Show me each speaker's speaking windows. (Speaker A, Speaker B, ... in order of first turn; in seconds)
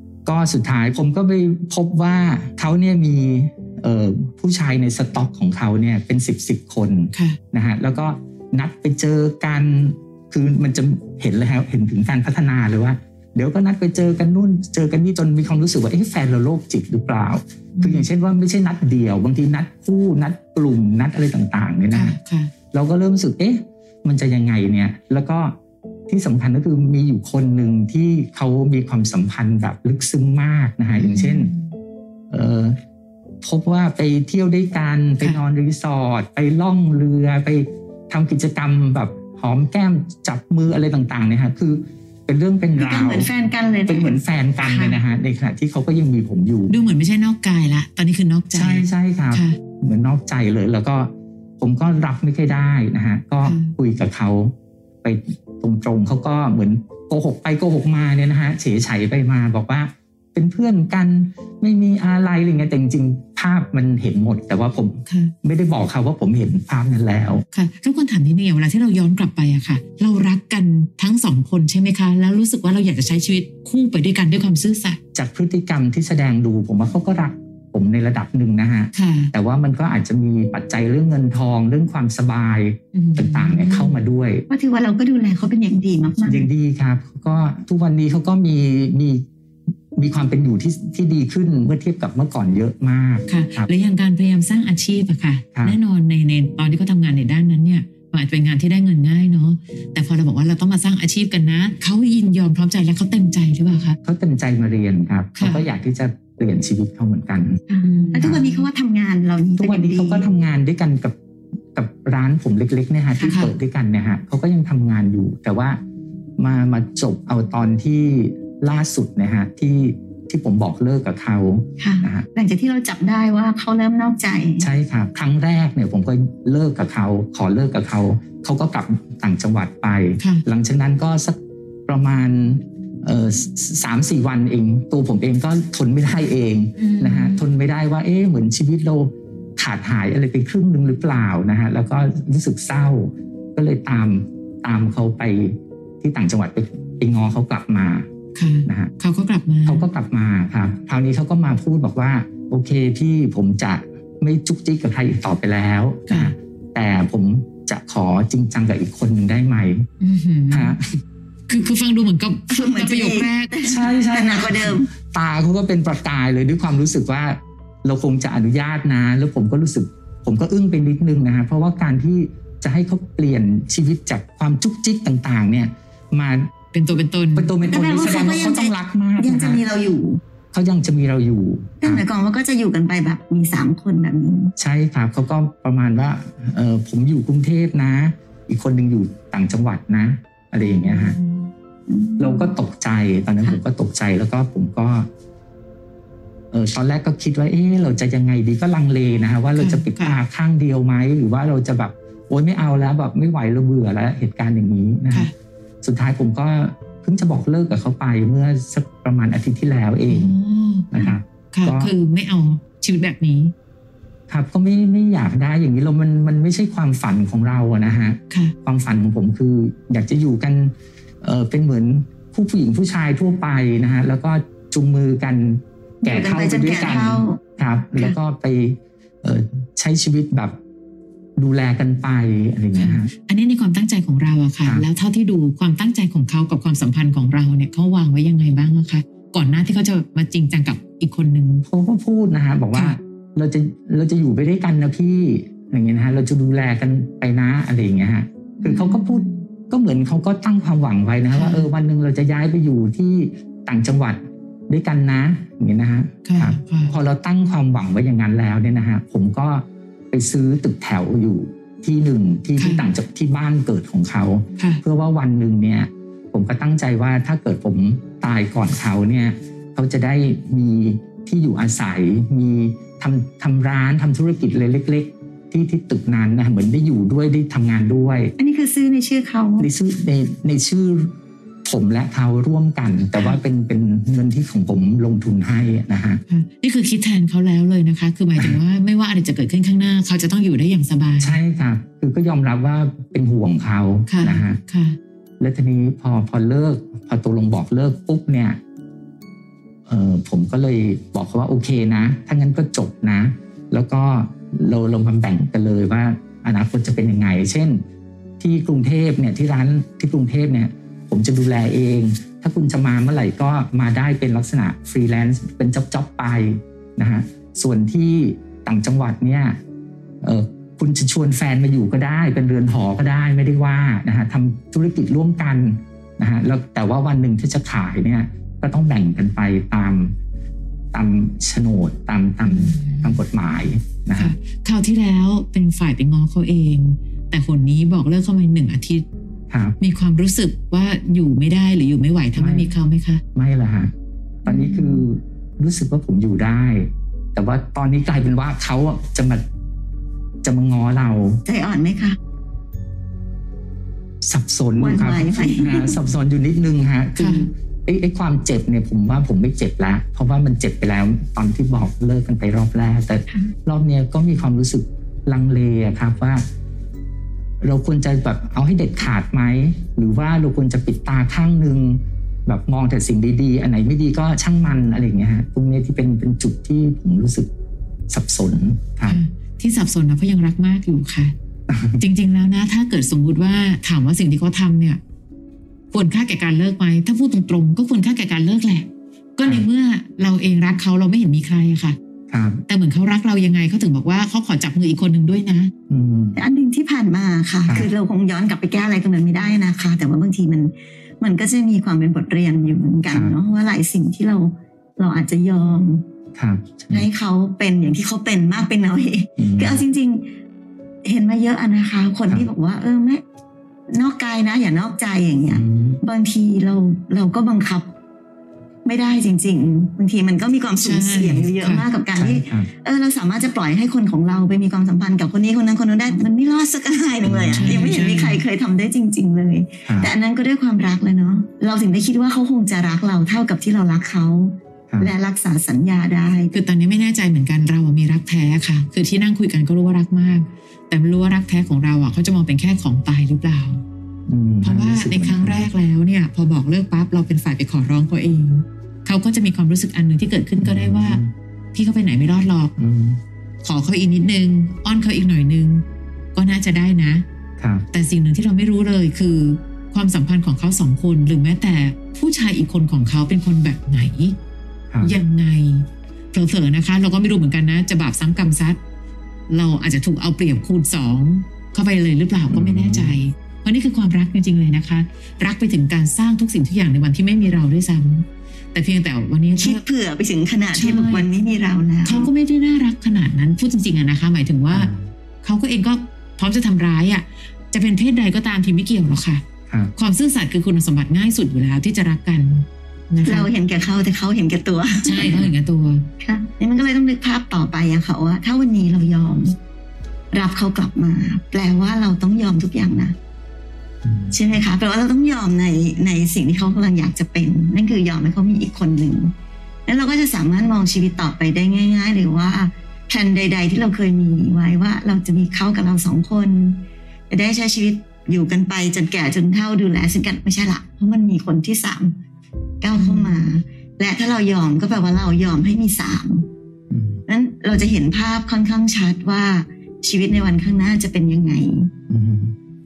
Speaker A: 0.2-22.2, 22.7-25.5, 26.1-31.5, 32.3-32.8, 33.4-43.3, 43.9-46.8, 48.5-67.4, 75.1-84.5, 86.2-89.2, 89.9-93.7, 104.0-107.6, 109.6-111.1, 111.7-115.8, 116.4-122.2, 124.6-148.1, 148.7-148.9, 149.6-159.9, 160.5-161.0, 163.6-176.5, 177.3-179.6, 180.5-182.0, 184.6-191.2, 192.2-195.1, 196.5-205.3, 205.8-210.3, 210.9-211.9, 214.3-230.6, 231.4-233.1, 241.7-278.3, 279.6-286.2, 291.2-294.6, 295.4-298.6, 299.9-307.8, 308.4-319.6, 320.2-330.1, 330.9-334.3, 339.5-339.8, 342.3-342.7, 343.3-343.9, 344.4-349.4, 350.4-351.4, 354.2-366.4, 367.6-377.5, 378.1-379.2, 381.7-382.0, 392.3-392.6, 395.9-396.4, 406.4-407.1, 409.4-409.8, 415.5-416.0, 422.2-422.7, 427.2-427.9, 429.8-430.1, 444.3-445.7, 450.6-451.3, 452.8-453.2, 457.6-457.9, 472.5-473.2, 484.7-485.1, 489.7-489.9, 504.0-504.4, 526.9-527.2, 532.1-532.5
Speaker B: 7.1-7.4, 17.8-18.1, 21.9-22.5, 31.0-31.7, 44.6-45.0, 46.7-49.6, 53.4-53.7, 65.1-65.3, 67.5-75.0, 78.9-79.3, 82.9-84.0, 93.3-104.0, 105.4-105.7, 107.8-108.6, 113.2-113.5, 136.8-137.4, 148.3-149.9, 156.1-156.3, 160.0-160.8, 161.5-163.8, 176.7-177.5, 190.6-191.5, 199.5-200.2, 210.1-213.5, 218.3-218.5, 232.7-241.6, 248.6-249.4, 251.3-251.7, 256.2-256.9, 262.6-262.8, 286.3-291.4, 294.1-295.0, 332.4-333.2, 334.1-339.0, 339.8-343.2, 344.4-345.1, 357.2-357.5, 379.0-381.3, 382.0-385.0, 385.9-392.0, 392.7-395.7, 420.8-421.8, 427.6-428.4, 436.5-443.8, 444.6-451.2, 451.7-452.7, 453.6-455.8, 456.3-457.2, 457.9-464.4, 465.0-468.8, 469.5-479.8, 480.7-481.3, 482.0-484.9, 485.4-489.4, 489.9-493.5, 495.0-496.1, 523.0-523.3
Speaker C: 42.8-44.2, 84.5-86.5, 107.7-110.3, 121.8-124.7, 162.5-164.9, 177.7-180.2, 181.8-184.5, 191.9-192.5, 226.0-227.4, 278.4-279.7, 351.4-352.2, 354.8-356.0, 396.3-406.0, 406.9-410.3, 411.0-413.2, 413.9-417.9, 418.8-436.5, 479.6-482.3, 493.2-495.5, 496.2-499.6, 500.3-503.1, 504.3-509.3, 509.9-522.1, 522.8-526.5, 527.3-531.9